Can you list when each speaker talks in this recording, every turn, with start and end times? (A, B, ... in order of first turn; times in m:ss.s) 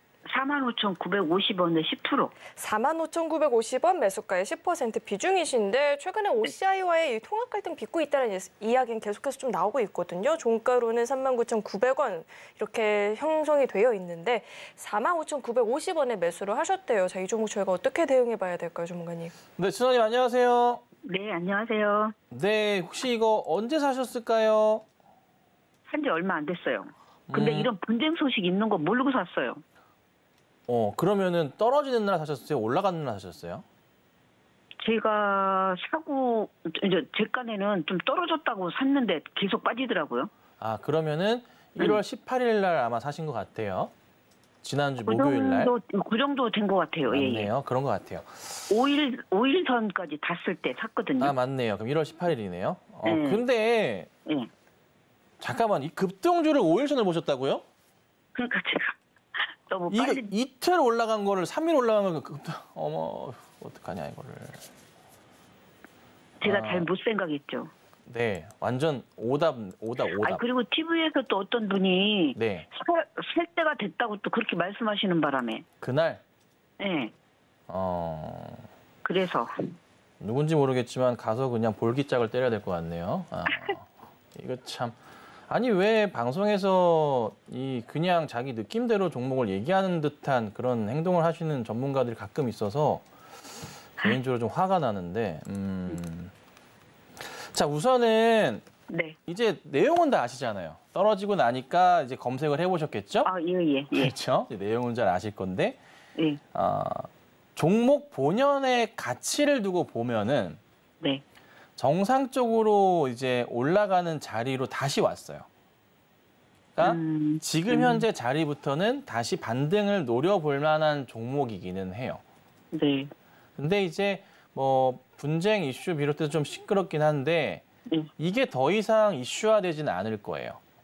0:00.3-0:02.3 A
0:02.6-0:19.4 B
0:19.6-0:20.8 C
0:21.0-0:22.2 A
0:22.3-0:24.8 C
0:25.9-0:29.6 A
0:27.3-0:27.7 C
0:30.7-0:33.6 C
0:34.8-0:40.3 A
0:40.6-0:43.9 C
0:44.6-0:45.7 C
0:45.0-0:47.5 A
0:47.1-0:48.6 C
0:48.7-0:51.3 A
0:51.2-0:54.1 C
0:53.0-0:53.4 A
0:55.4-0:57.6 C
0:58.4-1:00.3 A
0:59.9-1:04.7 C
1:06.4-1:07.7 A
1:06.4-1:06.9 C
1:08.1-1:10.4 C
1:10.1-1:15.6 A
1:12.4-1:12.7 C
1:15.8-1:16.2 C
1:16.8-1:17.1 A
1:17.7-1:18.7 C
1:19.0-1:19.8 A
1:20.2-1:25.0 C
1:25.5-1:33.0 C
1:34.0-1:36.3 C
1:37.2-1:38.7 C
1:38.9-1:39.2 A
1:39.3-1:43.3 C
1:43.2-1:44.1 A
1:43.9-1:45.8 C
1:46.2-1:46.4 A
1:46.5-1:50.6 C
1:51.8-1:55.5 C
1:56.8-2:02.2 C
1:56.8-1:58.1 A
2:02.7-2:03.1 A
2:03.6-2:07.6 C
2:08.2-2:10.6 C